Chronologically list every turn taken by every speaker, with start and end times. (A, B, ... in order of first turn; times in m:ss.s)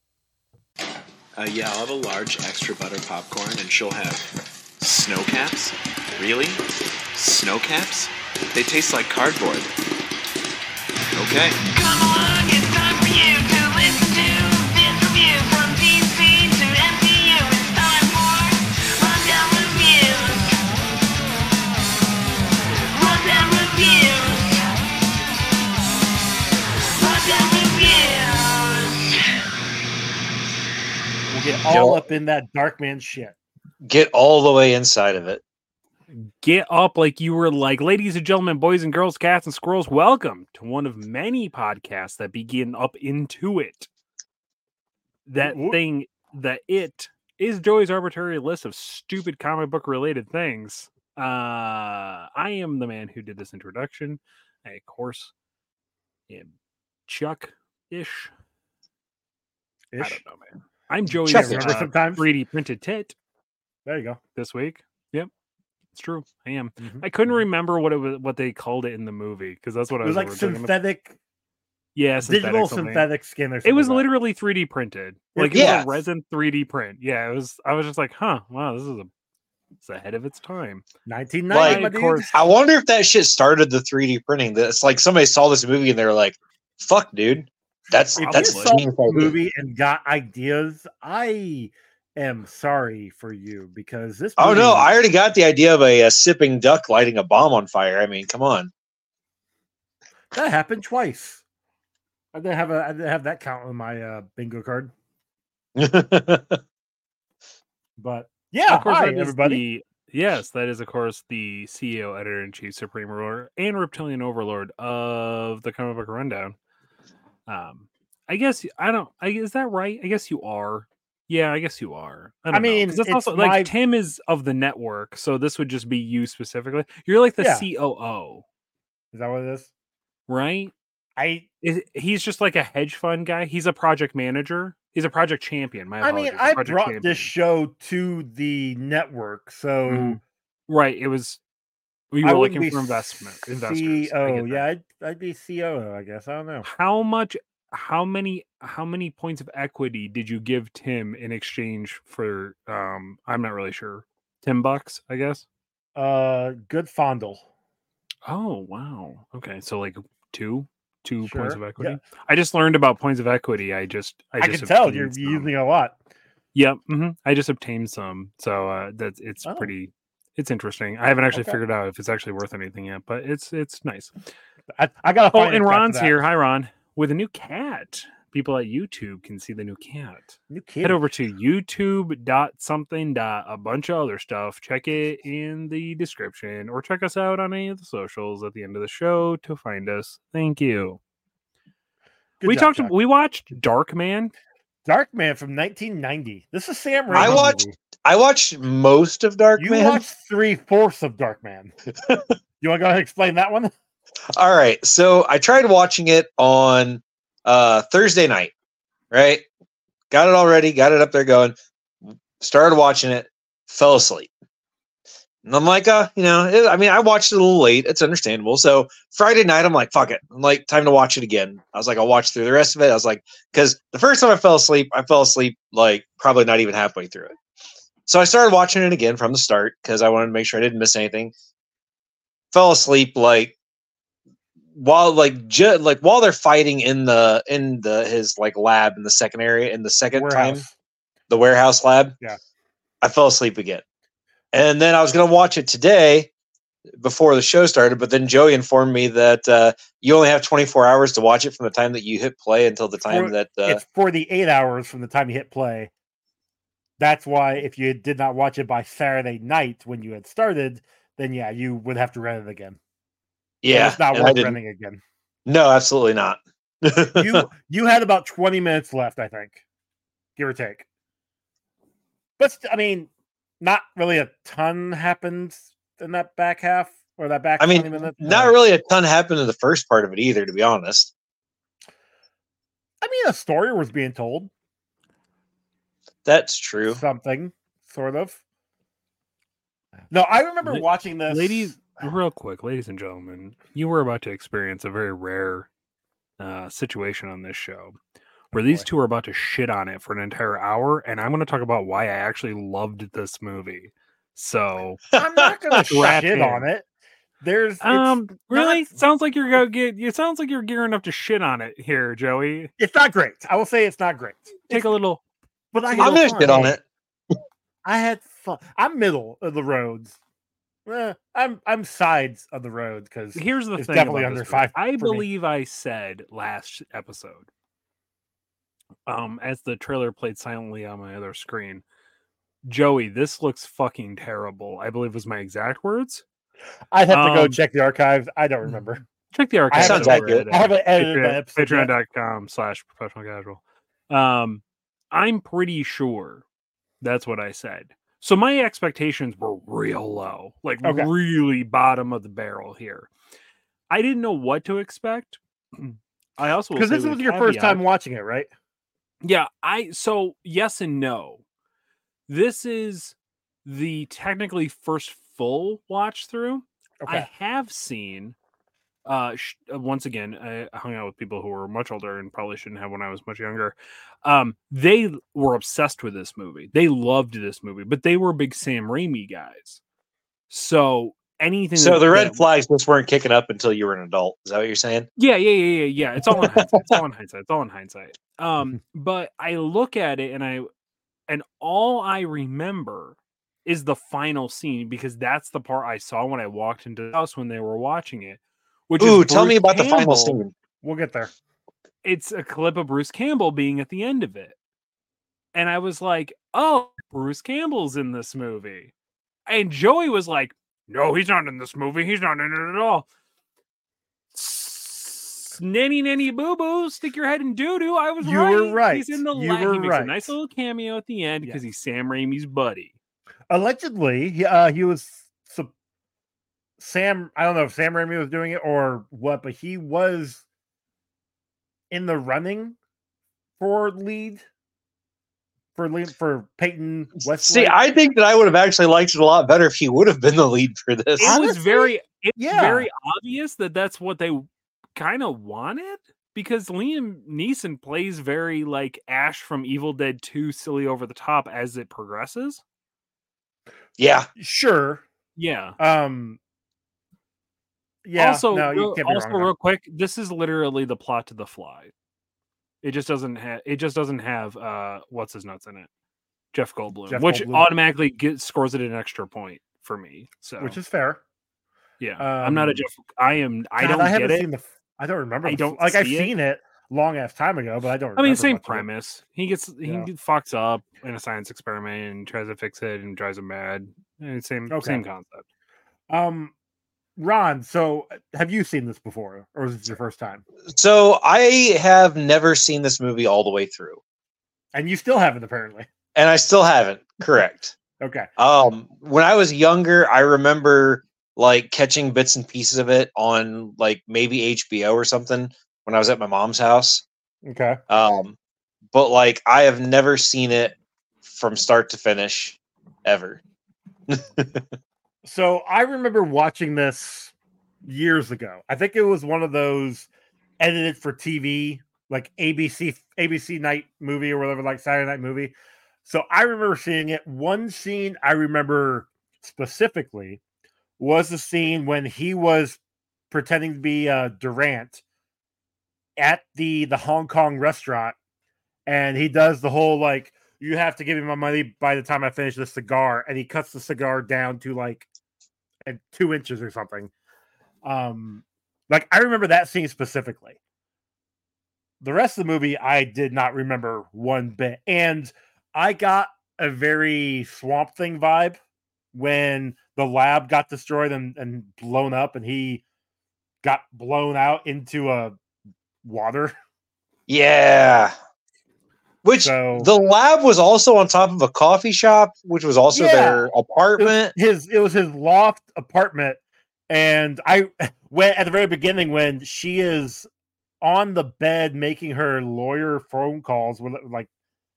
0:01.4-0:04.3 A
0:04.8-0:06.6 A
0:07.2-0:09.7 A
0:11.2-0:11.6 A
0:11.7-0:20.8 B
0:22.8-0:24.8 B
0:27.0-0:29.2 B
0:31.3-0:33.4 C
0:31.7-0:32.0 D
0:33.8-0:35.4 D
0:36.4-0:43.9 E
0:45.3-0:55.3 E
0:45.4-0:45.8 C
0:57.1-0:58.3 E
0:59.9-1:00.2 C
1:00.0-1:03.2 E
1:01.3-1:01.7 D
1:01.3-1:02.2 C
1:03.8-1:04.2 C
1:04.4-1:05.3 E
1:05.9-1:10.7 E
1:06.8-1:07.0 C
1:10.0-1:11.2 C
1:11.9-1:13.1 E
1:12.2-1:14.0 C
1:13.6-1:19.1 E
1:15.4-1:15.8 C
1:15.5-1:15.9 D
1:19.8-1:20.8 E
1:21.0-1:22.3 C
1:21.5-1:29.4 D
1:21.6-1:22.3 E
1:28.2-1:28.8 E
1:28.2-1:34.9 C
1:34.4-1:38.7 D
1:40.3-1:41.4 C
1:42.3-1:44.9 C
1:45.8-1:46.6 D
1:48.0-1:49.6 C
1:48.7-1:56.6 E
1:57.5-2:08.4 E
2:02.5-2:03.7 C
2:07.4-2:07.7 C
2:09.1-2:09.7 C
2:10.3-2:10.7 E
2:11.2-2:11.4 C
2:11.6-2:17.3 E
2:16.0-2:20.2 C
2:19.8-2:21.4 E
2:22.1-2:24.7 E
2:22.2-2:26.7 C
2:26.7-2:35.4 E
2:36.0-2:37.4 C
2:38.2-2:45.5 E
2:41.2-2:42.0 C
2:44.4-2:46.0 C
2:46.5-2:54.1 E
2:49.4-2:49.7 C
2:51.3-2:51.6 C
2:54.8-2:56.2 C
2:55.3-3:11.0 E
3:00.5-3:01.0 C
3:12.4-3:12.9 C
3:12.4-3:14.3 E
3:14.8-3:17.8 C
3:17.1-3:17.5 E
3:17.1-3:20.0 D
3:19.6-3:21.7 C
3:22.6-3:23.7 C
3:24.3-3:28.5 D
3:29.1-3:29.4 D
3:30.1-3:31.6 D
3:32.4-3:34.3 D
3:35.4-3:47.3 D
3:48.1-3:51.3 D
3:52.5-3:53.5 D
3:54.8-4:00.6 D
4:00.1-4:00.7 C
4:01.3-4:02.2 D
4:03.0-4:03.8 D
4:04.5-4:06.3 D
4:07.0-4:13.8 D
4:13.1-4:15.9 C
4:17.0-4:22.8 C
4:23.6-4:24.6 D
4:23.7-4:25.0 C
4:25.4-4:27.4 D
4:27.1-4:29.6 C
4:30.4-4:30.9 C
4:32.4-4:33.1 C
4:33.6-4:38.6 C
4:37.6-4:41.1 D
4:43.0-4:44.5 C
4:46.2-4:47.0 D
4:46.9-4:48.4 C
4:50.1-4:51.8 C
4:50.6-4:55.7 E
4:56.4-4:58.0 E
4:58.5-5:05.0 E
4:58.5-4:58.8 C
5:05.1-5:05.8 D
5:05.2-5:06.8 C
5:05.9-5:06.6 E
5:07.4-5:08.9 C
5:07.8-5:12.7 E
5:12.8-5:14.9 C
5:14.7-5:15.2 E
5:15.7-5:16.8 C
5:15.8-5:16.7 E
5:16.0-5:16.8 D
5:17.8-5:20.2 C
5:20.9-5:25.2 C
5:23.3-5:27.5 E
5:29.1-5:31.8 E
5:32.6-5:36.2 E
5:36.9-5:39.0 C
5:37.1-5:37.6 E
5:39.3-5:46.4 E
5:39.7-5:41.9 C
5:39.8-5:40.4 D
5:47.0-5:53.1 E
5:50.8-5:51.1 C
5:53.9-5:57.8 E
5:56.8-5:58.5 C
5:59.2-6:01.4 E
6:02.3-6:08.3 E
6:07.0-6:07.3 C
6:09.1-6:19.8 E
6:20.5-6:22.4 E
6:21.8-6:25.1 D
6:25.2-6:30.7 E
6:26.3-6:27.0 D
6:31.3-6:40.4 E
6:39.0-6:40.5 D
6:40.8-6:41.3 C
6:42.0-6:44.6 E
6:45.5-6:48.9 E
6:49.5-6:53.1 E
6:54.3-7:02.9 E
6:58.2-7:00.3 C
7:03.5-7:05.7 C
7:06.8-7:10.4 C
7:11.9-7:12.8 C
7:13.6-7:14.4 C
7:15.8-7:17.8 C
7:17.4-7:21.3 D
7:21.2-7:22.9 C
7:21.2-7:32.6 E
7:34.0-7:34.3 D
7:34.4-7:35.0 C
7:35.4-7:35.8 E
7:35.8-7:36.4 C
7:38.0-7:39.5 C
7:38.2-7:41.9 E
7:42.8-7:45.9 E
7:46.5-7:50.8 E
7:47.1-7:47.7 C
7:50.6-7:51.2 C
7:52.0-7:54.5 E
7:52.2-7:52.8 C
7:53.8-7:58.9 C
7:55.4-7:56.3 E
7:58.2-8:05.4 E
8:04.7-8:05.0 C
8:06.1-8:06.5 C
8:07.2-8:10.4 C
8:10.7-8:14.0 D
8:14.7-8:15.9 C
8:16.2-8:17.8 D
8:18.0-8:18.3 C
8:18.4-8:27.0 D
8:27.4-8:27.8 C
8:27.9-8:28.4 D
8:28.9-8:33.4 D
8:34.1-8:34.7 D
8:35.2-8:37.3 C
8:37.8-8:45.5 C
8:46.0-8:50.4 C
8:51.0-8:52.8 C
8:53.3-8:55.0 C
8:56.2-8:58.2 C
8:58.9-9:05.1 C
9:05.8-9:07.1 C
9:07.8-9:10.6 C
9:12.0-9:18.6 C
9:19.1-9:22.8 C
9:23.6-9:25.4 C
9:26.0-9:26.6 C
9:27.3-9:28.1 D
9:29.2-9:34.3 D
9:29.4-9:29.9 C
9:32.9-9:40.3 C
9:40.8-9:44.3 C